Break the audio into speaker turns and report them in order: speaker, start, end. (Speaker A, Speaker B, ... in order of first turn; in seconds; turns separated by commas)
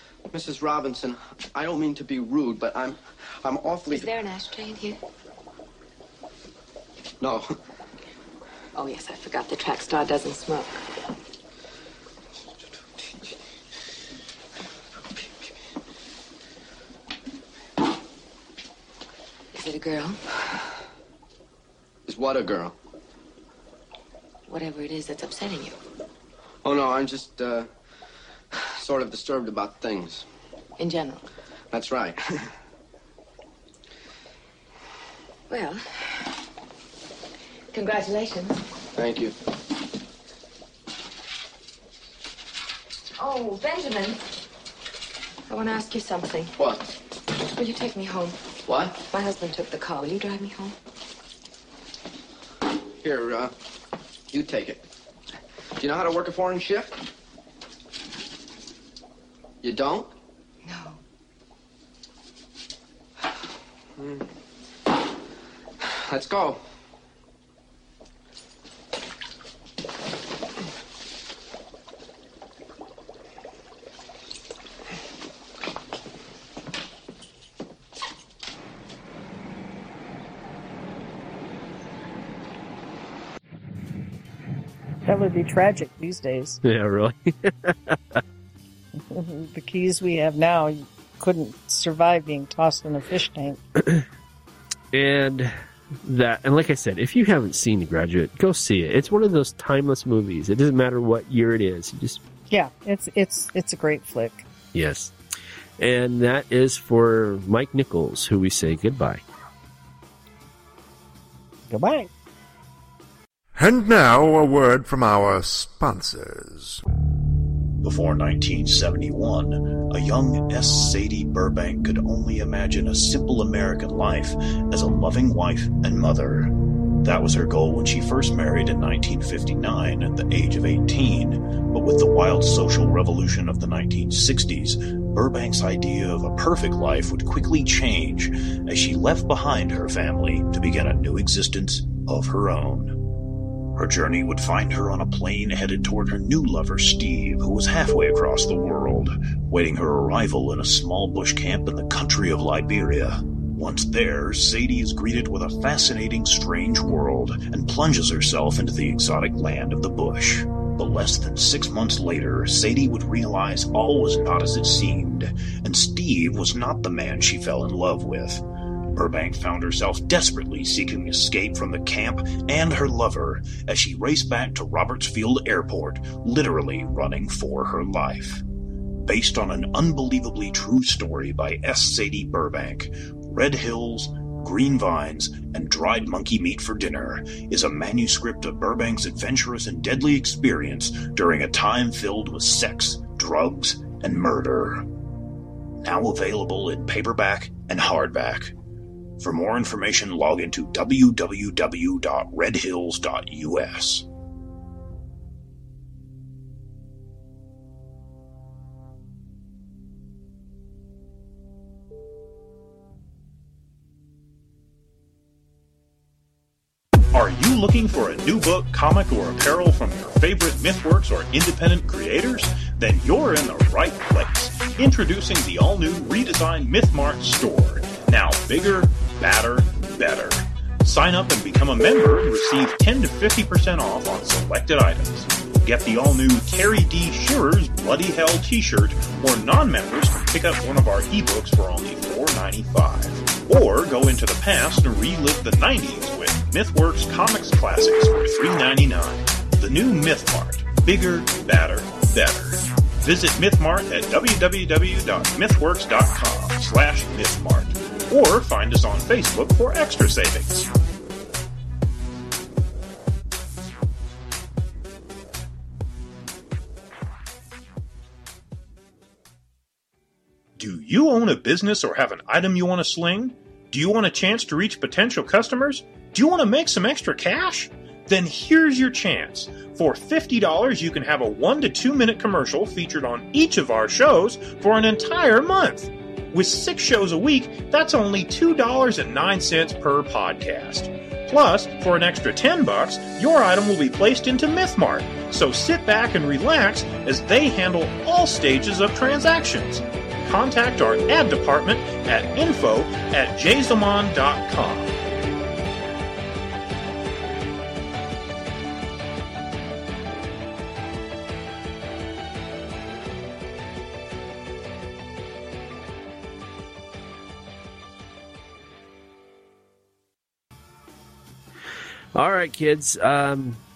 Speaker A: 0.3-4.1, Speaker B: 3.9-5.0, Speaker A: 7.2-7.6, Speaker B: 8.8-10.8, Speaker B: 19.5-20.2, Speaker A: 22.1-22.8, Speaker B: 24.5-25.8, Speaker A: 26.6-27.7, Speaker A: 28.5-30.2, Speaker B: 30.8-31.2, Speaker A: 31.7-32.5, Speaker B: 35.5-36.3, Speaker B: 37.7-38.6, Speaker A: 38.9-39.4, Speaker B: 43.2-44.2, Speaker B: 45.5-46.5, Speaker A: 46.6-46.8, Speaker B: 47.5-48.4, Speaker A: 48.7-49.0, Speaker B: 49.0-50.8, Speaker A: 53.0-53.5, Speaker A: 54.3-54.9, Speaker A: 55.8-57.0, Speaker A: 59.6-60.1, Speaker B: 60.6-61.0, Speaker A: 64.0-64.2, Speaker A: 65.8-66.6, Speaker C: 85.1-86.6, Speaker D: 86.6-88.2, Speaker C: 89.1-93.6, Speaker D: 94.9-102.2, Speaker C: 102.5-104.5, Speaker D: 104.7-105.1, Speaker D: 105.8-109.2, Speaker C: 111.7-112.1, Speaker E: 113.6-116.8, Speaker F: 117.8-143.0, Speaker F: 143.8-168.4, Speaker F: 168.9-178.4, Speaker F: 179.1-194.8, Speaker F: 195.8-198.5, Speaker F: 199.2-204.1, Speaker F: 217.1-260.7, Speaker F: 270.6-304.9, Speaker D: 322.1-323.6